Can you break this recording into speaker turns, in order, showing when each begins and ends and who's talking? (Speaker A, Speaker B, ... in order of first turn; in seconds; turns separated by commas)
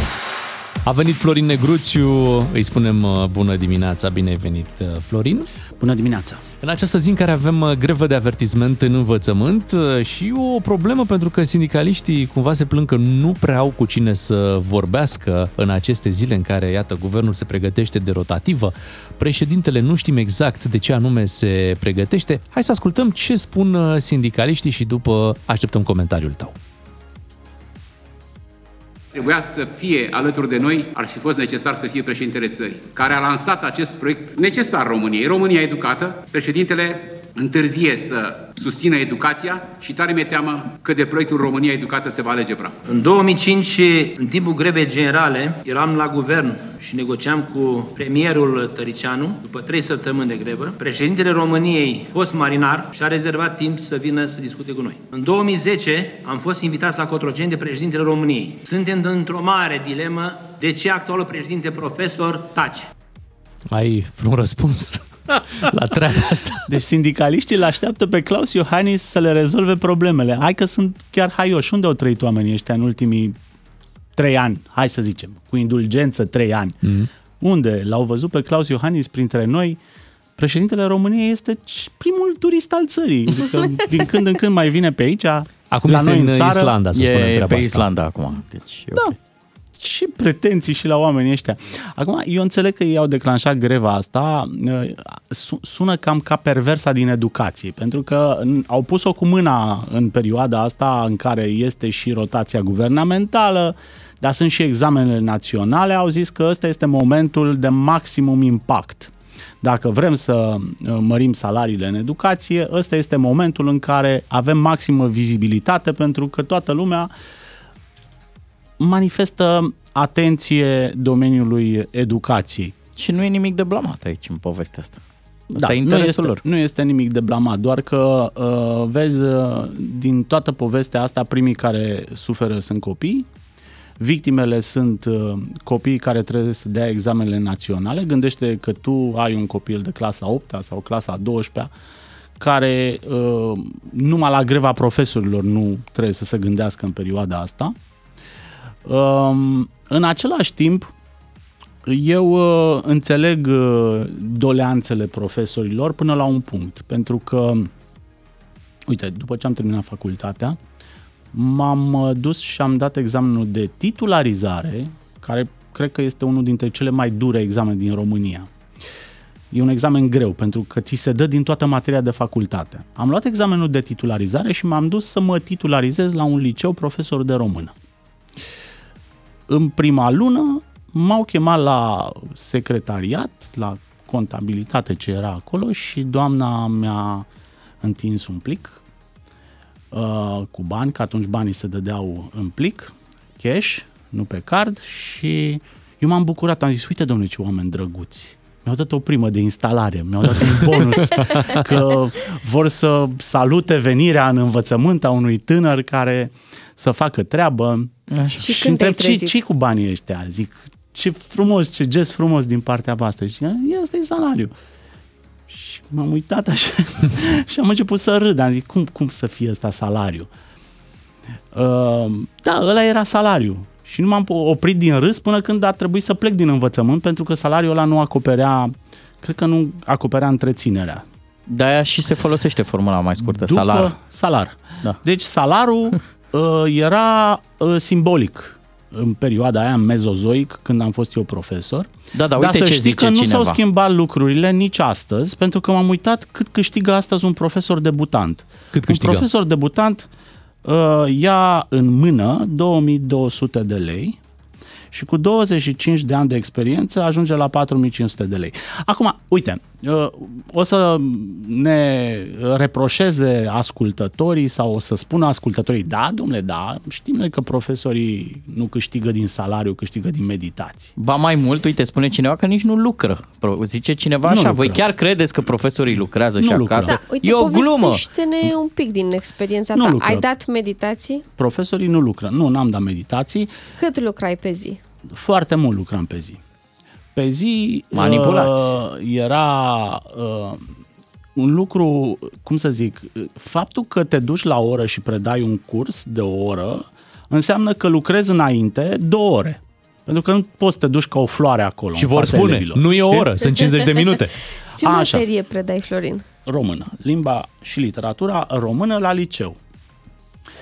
Speaker A: 0.8-5.5, Speaker B: 5.8-6.4, Speaker A: 6.6-26.6, Speaker C: 29.1-42.8, Speaker D: 42.9-62.9, Speaker A: 63.7-66.6, Speaker B: 66.7-73.3, Speaker B: 74.2-76.8, Speaker B: 77.4-79.8, Speaker B: 80.4-86.8, Speaker A: 85.7-87.9, Speaker E: 86.9-89.1, Speaker B: 89.8-117.1, Speaker B: 118.8-122.7, Speaker E: 123.0-125.0, Speaker B: 125.5-133.2, Speaker E: 125.5-126.4, Speaker B: 134.0-141.7, Speaker B: 142.4-147.8, Speaker B: 148.8-150.9, Speaker B: 151.8-157.7, Speaker B: 158.9-160.6, Speaker B: 161.3-168.5, Speaker B: 169.5-177.7, Speaker B: 179.5-187.3, Speaker B: 187.8-188.8, Speaker B: 189.9-207.9, Speaker E: 208.1-208.6, Speaker F: 208.4-209.3, Speaker B: 208.4-214.5, Speaker B: 215.5-220.3, Speaker B: 221.5-231.0, Speaker E: 231.5-233.9, Speaker B: 233.2-250.1, Speaker E: 242.1-243.6, Speaker A: 248.7-249.2, Speaker B: 250.6-254.2, Speaker B: 254.9-270.9, Speaker E: 270.9-278.1, Speaker B: 274.2-274.8, Speaker B: 276.4-277.0, Speaker F: 276.8-281.2, Speaker B: 279.7-280.3, Speaker B: 281.4-283.5, Speaker F: 283.8-284.8, Speaker B: 285.1-286.4, Speaker B: 287.1-290.6, Speaker E: 287.9-288.8, Speaker B: 291.4-303.3, Speaker A: 301.9-304.4, Speaker F: 304.8-306.2, Speaker B: 304.8-305.3, Speaker B: 306.4-309.6